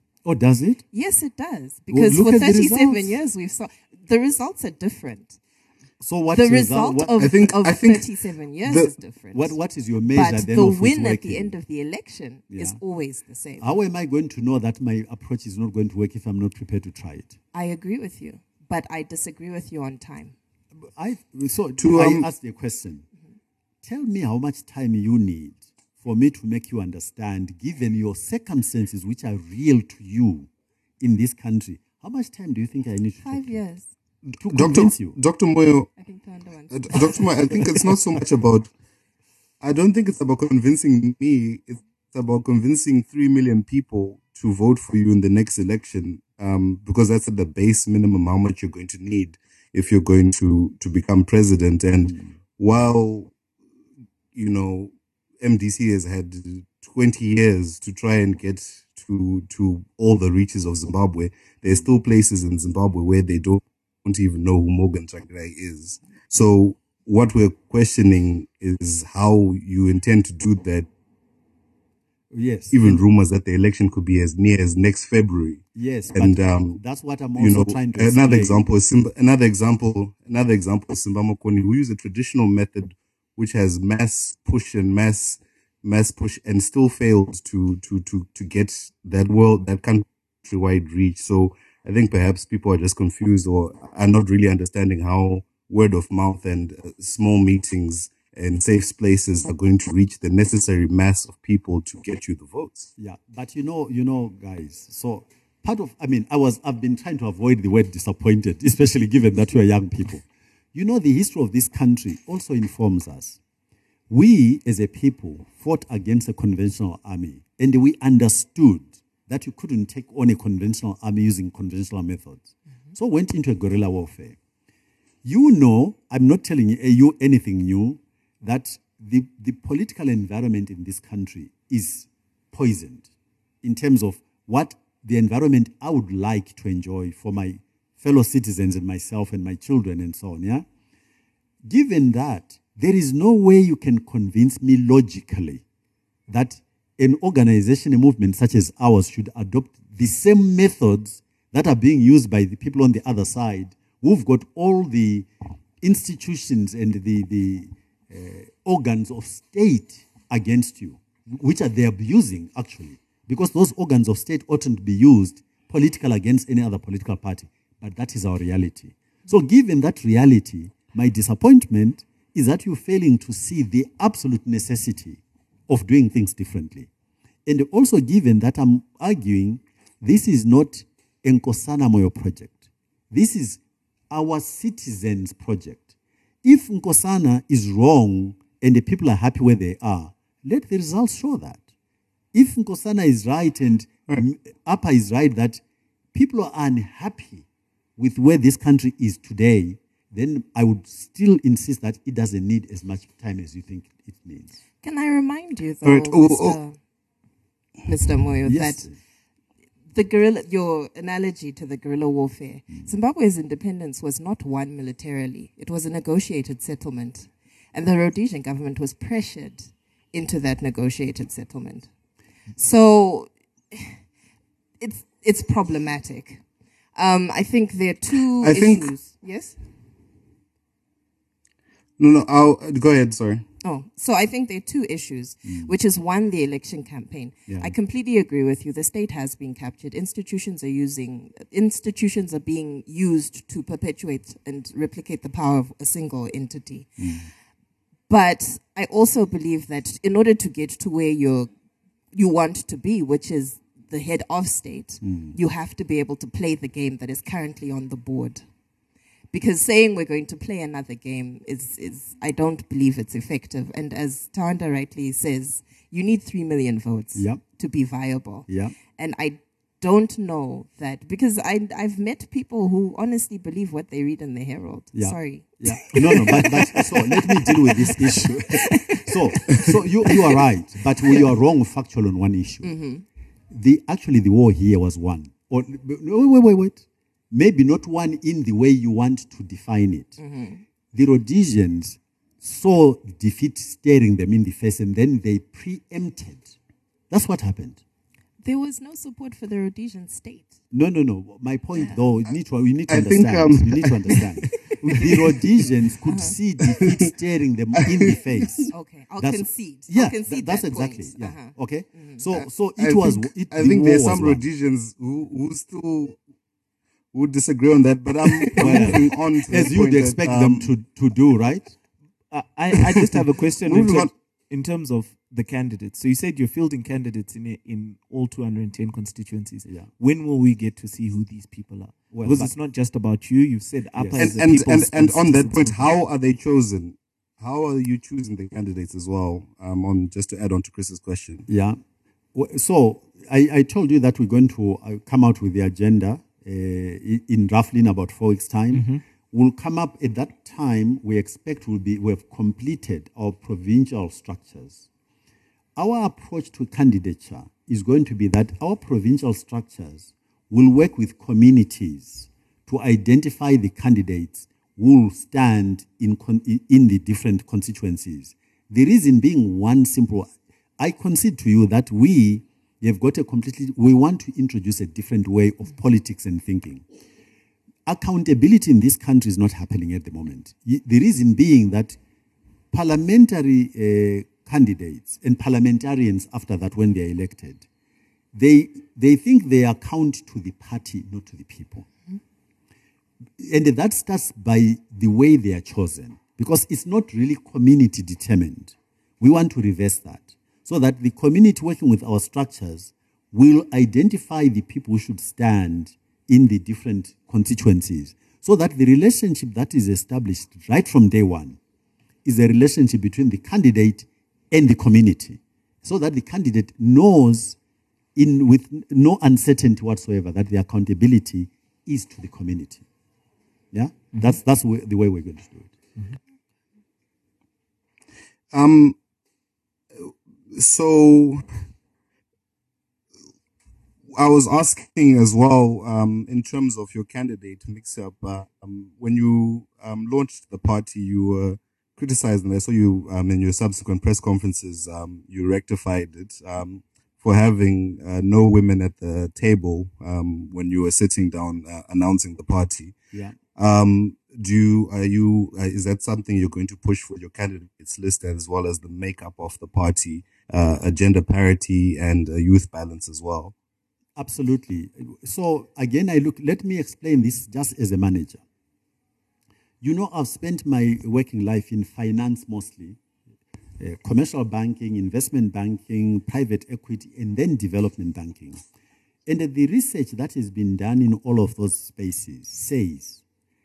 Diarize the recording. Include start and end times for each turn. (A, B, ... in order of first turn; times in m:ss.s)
0:00.2-0:00.8 A
0:00.9-0:05.4 B
0:01.9-0:03.1 A
0:06.0-0:07.2 A
0:06.3-0:09.5 B
0:07.2-0:08.1 C
0:08.6-0:08.9 C
0:09.3-0:11.5 A
0:10.1-0:13.7 B
0:12.5-0:12.8 A
0:13.6-0:17.4 A
0:17.5-0:20.3 B
0:20.8-0:23.0 A
0:21.8-0:22.3 C
0:23.8-0:30.5 A
0:31.0-0:33.5 A
0:33.2-0:33.9 B
0:34.4-0:35.2 A
0:34.4-0:35.9 C
0:36.0-0:37.6 B
0:36.7-0:38.7 C
0:39.6-0:53.3 C
0:54.3-1:10.9 C
1:12.3-1:13.0 A
1:12.7-1:16.8 C
1:15.8-1:18.6 A
1:17.4-1:42.9 C
1:43.0-1:53.4 A
1:54.1-2:04.4 A
2:05.2-2:13.1 A
2:13.6-2:20.6 A
2:21.6-2:25.6 A
2:26.3-2:35.3 A
2:35.8-2:56.9 A
2:57.4-3:05.9 A
3:06.4-3:11.6 A
3:12.3-3:15.6 A
3:16.1-3:17.4 A
3:18.0-3:24.6 A
3:24.8-3:26.8 B
3:25.8-3:26.6 C
3:27.8-3:28.9 B
3:28.4-3:29.0 A
3:29.9-3:41.9 B
3:42.6-3:44.0 B
3:44.8-3:46.4 B
3:46.9-3:49.6 B
3:48.4-3:48.9 C
3:52.0-3:53.4 C
3:53.6-4:07.1 B
3:55.4-3:55.7 A
3:57.5-3:57.7 A
4:07.0-4:07.3 A
4:08.1-4:11.5 B
4:12.1-4:18.4 B
4:15.0-4:15.4 A
4:19.3-4:40.4 B
4:27.1-4:27.4 A
4:28.5-4:28.8 A
4:34.9-4:42.7 A
4:41.0-4:41.3 B
4:42.6-4:43.0 B
4:43.5-4:50.2 A
4:50.2-4:50.6 B
4:50.9-4:56.6 A
4:57.1-4:57.8 A
4:58.4-5:00.6 B
5:00.7-5:08.7 A
5:02.9-5:04.3 C
5:05.0-5:05.3 B
5:06.0-5:06.4 B
5:06.7-5:07.0 C
5:07.9-5:08.6 C
5:08.7-5:12.2 B
5:09.2-5:14.4 A
5:12.3-5:16.2 C
5:17.1-5:20.7 C
5:18.5-5:21.7 A
5:22.3-5:35.9 D
5:23.6-5:24.1 C
5:32.1-5:32.5 A
5:34.0-5:34.3 A
5:34.2-5:41.5 C
5:41.5-5:41.8 A
5:42.3-5:54.9 A
5:48.7-5:49.0 D
5:55.8-6:16.8 A
6:17.8-6:22.0 A
6:22.7-6:27.6 A
6:28.3-6:31.9 A
6:33.4-6:51.6 A
6:52.2-6:57.6 A
6:58.1-7:02.8 A
7:03.7-7:05.7 A
7:08.5-7:09.0 C
7:10.0-7:11.4 C
7:14.1-7:32.9 C
7:33.6-7:43.5 C
7:44.2-7:48.4 A
7:49.8-7:53.0 A
7:53.8-7:58.6 A
7:59.2-8:03.2 A